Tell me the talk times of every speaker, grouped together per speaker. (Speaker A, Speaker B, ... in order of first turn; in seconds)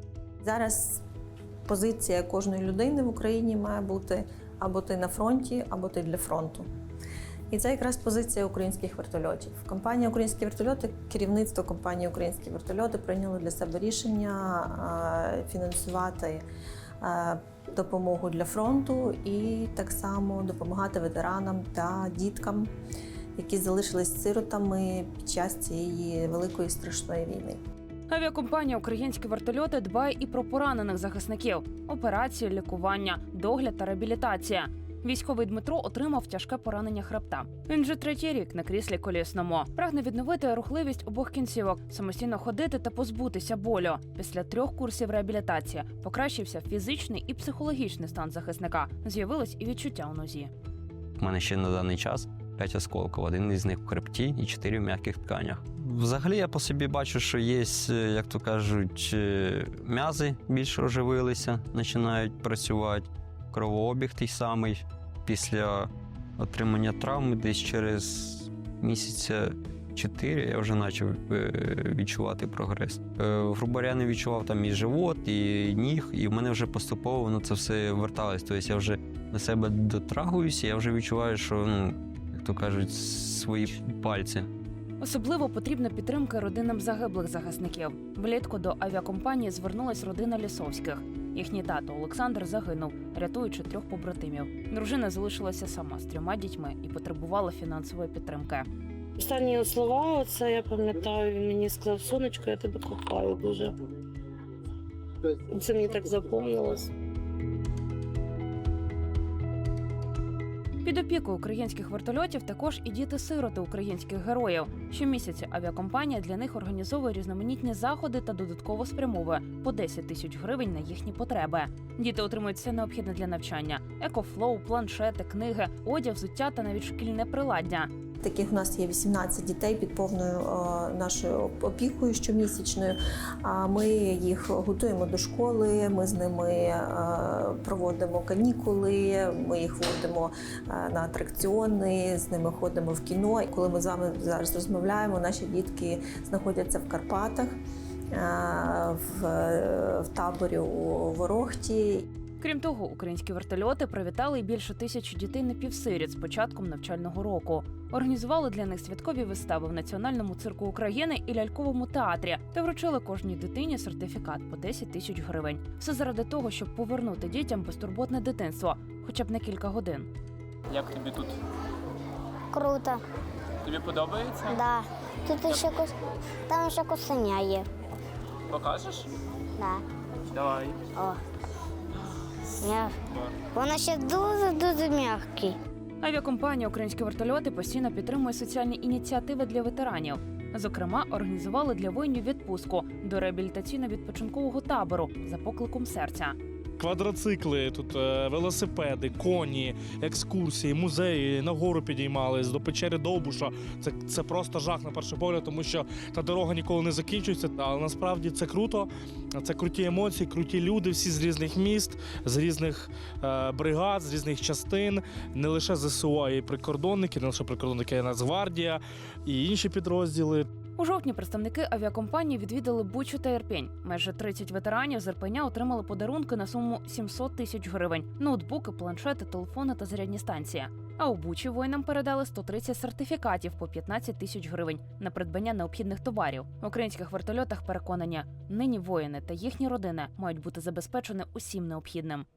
Speaker A: 0.4-1.0, 1.7-6.6, 7.5-16.4, 17.0-22.7, 23.4-27.6, 128.2-147.5, 148.1-152.1
Speaker B: 28.1-50.5, 85.0-98.7, 110.8-127.9, 152.4-170.1, 186.0-196.3, 220.8-242.2
Speaker C: 51.2-84.5
Speaker D: 99.2-103.7, 105.5-106.9
Speaker E: 170.7-171.3, 173.6-174.6, 178.5-179.1, 180.3-180.7
Speaker F: 172.5-173.0, 174.5-175.9, 176.5-177.7, 179.6-179.8, 182.6-182.9, 183.5-185.6
Speaker G: 196.9-208.8, 209.4-218.8, 219.3-220.4